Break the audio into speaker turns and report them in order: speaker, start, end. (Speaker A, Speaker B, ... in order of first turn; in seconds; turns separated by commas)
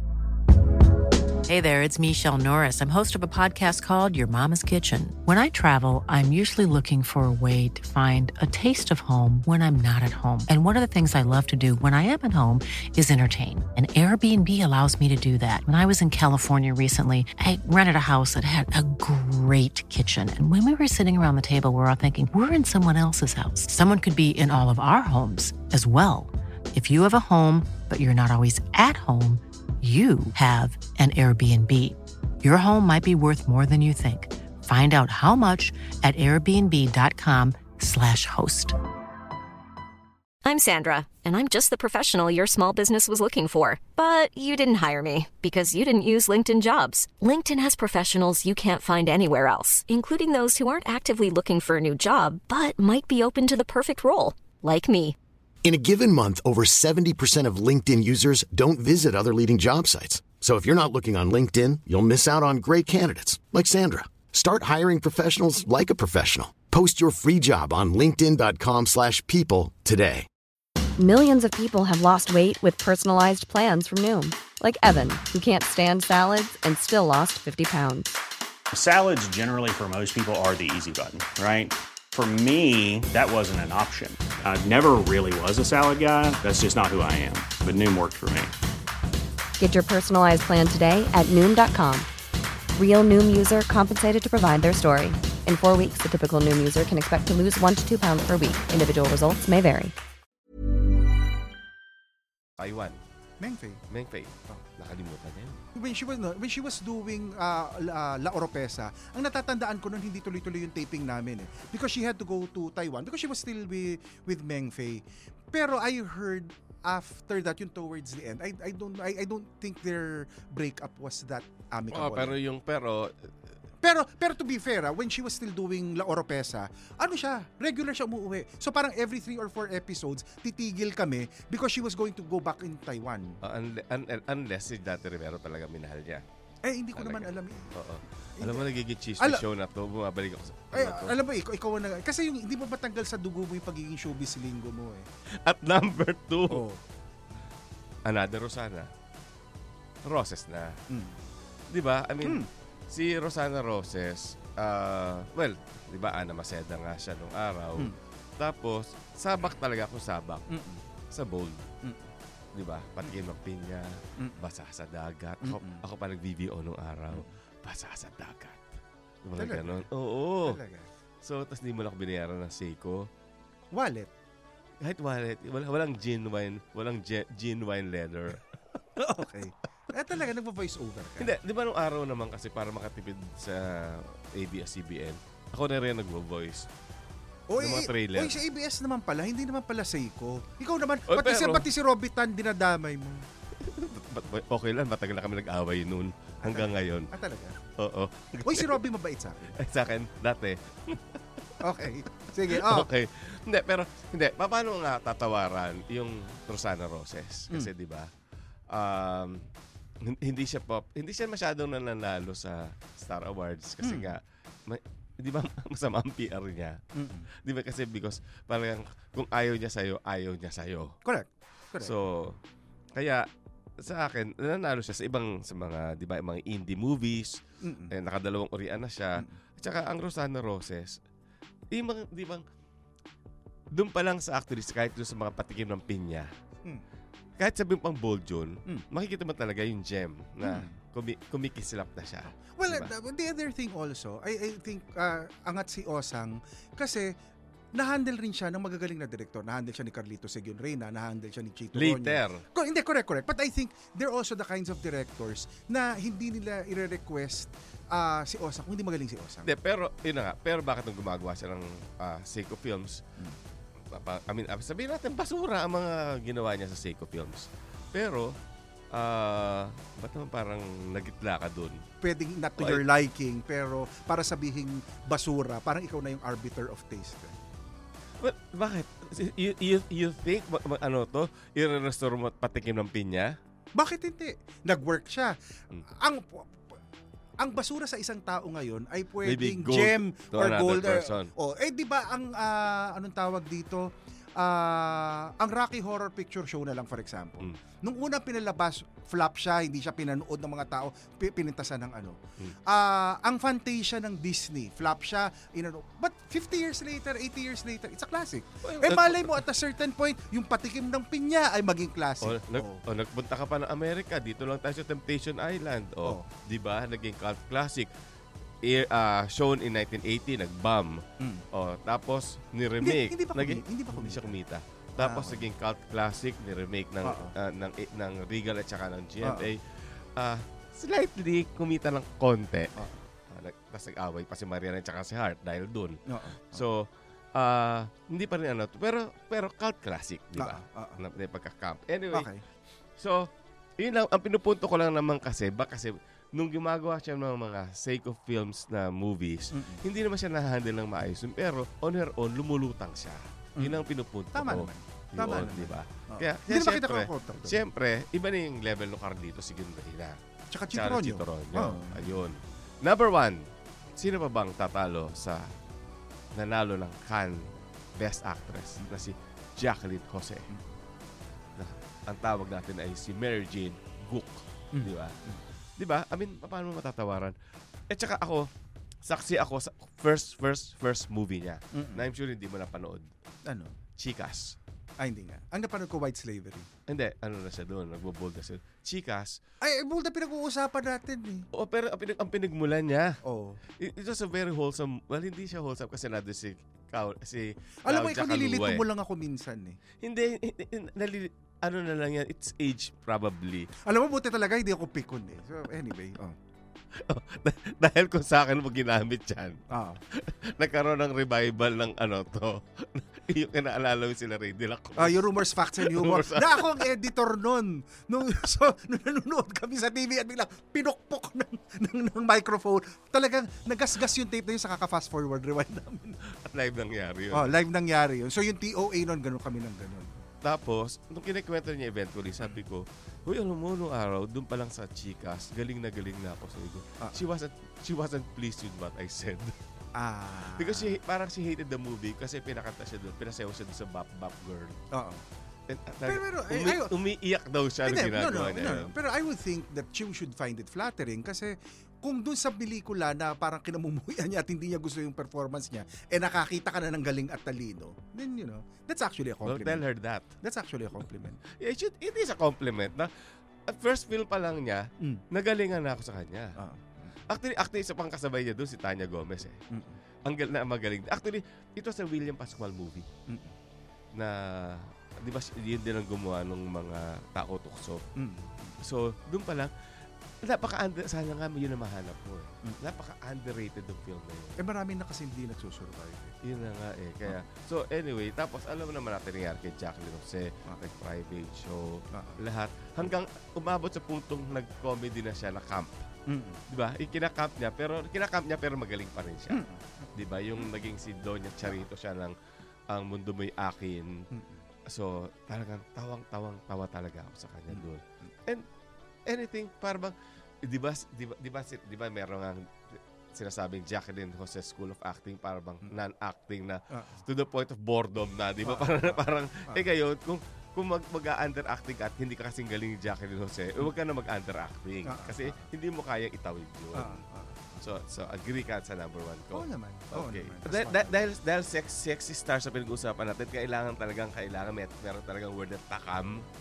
Speaker A: 1.5-38.8, Speaker B: 40.4-55.2, Speaker C: 55.6-70.3, Speaker D: 71.0-78.1, Speaker E: 78.7-88.5, Speaker D: 89.6-92.1, Speaker D: 92.8-99.9, Speaker F: 102.6-103.0, Speaker G: 103.4-103.8, Speaker F: 103.9-105.6, Speaker G: 105.8-122.4, Speaker F: 121.9-123.1, Speaker G: 123.8-133.4, Speaker F: 133.4-136.2, Speaker G: 136.7-137.7, Speaker F: 137.0-141.2, Speaker G: 138.4-138.7, Speaker G: 140.7-145.1, Speaker F: 145.4-146.6, Speaker G: 146.5-146.8, Speaker F: 148.1-148.9, Speaker F: 150.1-150.8, Speaker G: 150.9-151.2, Speaker F: 151.7-160.5, Speaker G: 152.2-152.5, Speaker G: 160.5-160.8, Speaker F: 161.1-161.7, Speaker G: 161.8-162.1, Speaker F: 162.5-168.7, Speaker G: 165.4-165.8, Speaker F: 169.2-170.6, Speaker G: 169.4-169.8, Speaker G: 170.4-170.9, Speaker F: 171.2-173.1, Speaker G: 173.7-174.1, Speaker F: 174.8-178.4, Speaker G: 179.0-181.3, Speaker F: 181.2-186.7, Speaker G: 187.5-193.2, Speaker F: 187.6-188.4, Speaker F: 191.1-191.7, Speaker F: 193.6-197.1, Speaker G: 196.4-197.6, Speaker F: 197.8-198.8, Speaker G: 198.4-199.6, Speaker F: 199.6-201.4, Speaker G: 201.6-202.9, Speaker F: 202.5-208.1, Speaker F: 208.7-209.5, Speaker F: 210.0-216.8, Speaker G: 213.8-214.2, Speaker G: 216.9-217.3, Speaker F: 217.3-221.0, Speaker G: 221.1-221.9, Speaker F: 221.8-222.4, Speaker F: 222.9-223.3, Speaker F: 223.8-231.0, Speaker G: 227.6-227.9, Speaker F: 231.7-232.4, Speaker F: 233.7-236.3, Speaker F: 237.4-242.9, Speaker G: 240.4-240.8, Speaker G: 242.4-247.2, Speaker G: 247.7-259.5, Speaker F: 251.8-252.4, Speaker F: 259.4-263.0, Speaker F: 263.9-268.4, Speaker F: 268.9-271.8, Speaker G: 272.0-277.4, Speaker F: 272.6-272.8, Speaker F: 278.2-283.4, Speaker G: 283.8-285.3, Speaker G: 286.0-286.8, Speaker G: 287.4-312.8, Speaker F: 289.2-291.3, Speaker F: 308.6-309.4, Speaker F: 312.2-317.9, Speaker F: 318.6-329.6, Speaker G: 321.2-321.4, Speaker G: 322.8-324.4, Speaker G: 325.0-325.5, Speaker G: 327.0-327.3, Speaker G: 329.2-329.5, Speaker F: 330.2-336.0, Speaker G: 336.1-336.6, Speaker F: 336.5-342.3, Speaker G: 340.4-341.0, Speaker G: 342.1-342.4, Speaker F: 343.0-360.2, Speaker G: 349.5-349.8, Speaker G: 353.6-353.8, Speaker G: 354.3-357.6, Speaker G: 360.5-362.2, Speaker F: 360.7-365.5, Speaker F: 366.4-370.5, Speaker F: 371.6-375.1, Speaker G: 374.7-375.4, Speaker F: 375.8-377.4, Speaker F: 377.9-378.5, Speaker F: 379.1-383.1, Speaker G: 381.7-382.1, Speaker G: 383.5-383.8, Speaker F: 384.0-384.6, Speaker G: 385.0-386.7, Speaker F: 386.9-389.4, Speaker G: 389.6-391.5, Speaker F: 391.5-393.2, Speaker G: 393.2-393.6, Speaker F: 393.8-398.9, Speaker G: 397.9-399.8, Speaker F: 400.0-403.7, Speaker G: 403.9-406.4, Speaker F: 407.0-409.6, Speaker G: 409.7-410.0, Speaker F: 410.1-416.9, Speaker G: 415.0-426.2, Speaker F: 426.4-427.6, Speaker G: 427.3-430.2, Speaker F: 430.4-439.6, Speaker G: 440.0-441.0, Speaker F: 440.6-444.8, Speaker G: 444.9-445.2, Speaker F: 445.7-448.9, Speaker G: 446.1-446.9, Speaker G: 447.9-459.8, Speaker F: 459.4-460.3, Speaker G: 460.4-461.4, Speaker F: 461.4-463.1, Speaker F: 463.7-466.6, Speaker G: 466.6-467.2, Speaker F: 467.3-469.6, Speaker G: 469.7-470.0, Speaker F: 470.3-473.1, Speaker G: 473.3-473.5, Speaker F: 474.1-478.1, Speaker G: 478.2-478.8, Speaker F: 478.8-479.7, Speaker F: 480.4-484.6, Speaker G: 484.6-486.4, Speaker F: 486.4-496.1, Speaker G: 492.1-492.4, Speaker G: 496.3-496.6, Speaker F: 496.7-502.4, Speaker G: 499.5-500.1, Speaker F: 502.9-504.3, Speaker G: 504.3-504.6, Speaker F: 504.9-508.7, Speaker F: 509.3-527.2, Speaker G: 518.6-519.9, Speaker G: 525.1-525.6, Speaker G: 527.0-527.8, Speaker F: 527.8-536.5, Speaker G: 529.5-531.3